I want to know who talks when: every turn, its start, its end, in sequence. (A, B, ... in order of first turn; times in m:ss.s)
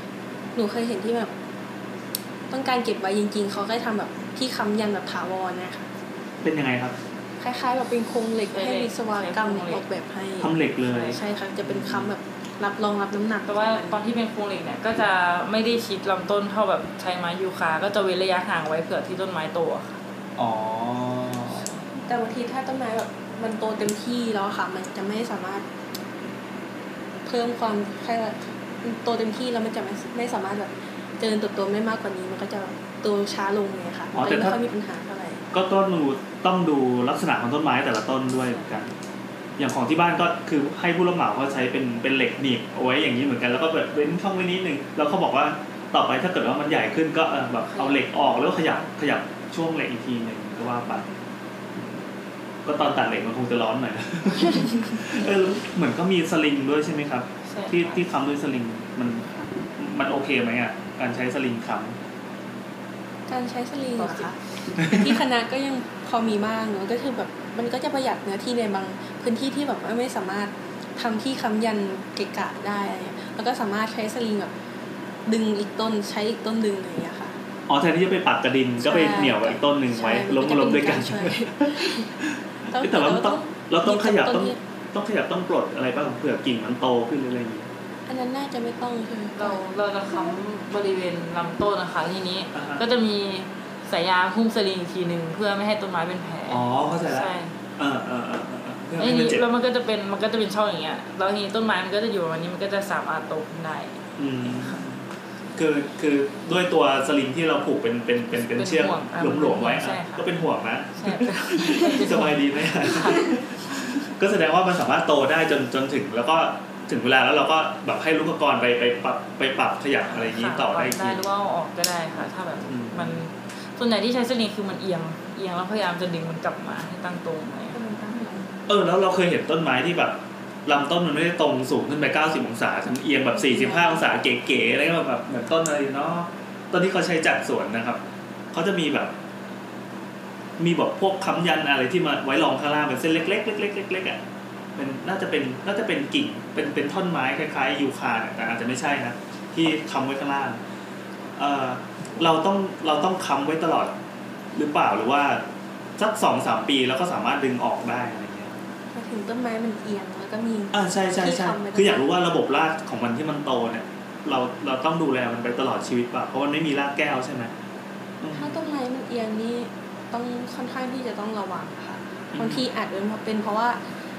0:00.5-0:01.3 A
0:02.5-0:05.9 A
0:06.4-0:07.0 B
0:07.4-0:10.5 A
0:08.5-0:09.8 C
0:10.4-0:12.1 B
0:10.9-0:11.2 C
0:11.1-0:14.0 A
0:13.4-0:20.0 C
0:20.4-0:21.7 B
0:22.0-0:25.6 A
0:27.2-0:35.4 A
0:34.1-0:34.6 B
0:35.5-0:38.9 B
0:38.5-0:38.7 C
0:39.6-0:51.0 B
0:47.7-0:48.0 C
0:52.6-1:02.0 B
0:57.4-0:58.0 C
1:03.3-1:14.5 A
1:03.9-1:04.3 C
1:04.8-1:05.2 B
1:15.2-1:17.3 A
1:17.7-1:27.7 B
1:18.8-1:22.1 A
1:22.7-1:24.6 A
1:28.1-1:30.3 A
1:29.4-1:37.5 C
1:32.5-1:32.8 B
1:36.5-1:39.4 B
1:39.0-1:44.8 C
1:44.2-1:45.0 B
1:45.6-2:01.2 B
1:48.5-1:50.3 C
1:51.0-1:53.8 C
2:00.1-2:07.8 C
2:02.7-2:03.2 B
2:07.7-2:08.5 A
2:08.7-2:18.0 B
2:13.4-2:14.0 A
2:18.5-2:19.1 B
2:20.6-2:24.2 B
2:24.8-2:30.6 B
2:31.4-2:33.9 B
2:34.5-2:35.4 B
2:36.0-2:38.5 B
2:38.9-2:42.1 A
2:40.7-2:47.5 B
2:48.2-2:48.6 B
2:48.3-2:53.8 A
2:52.3-2:52.6 B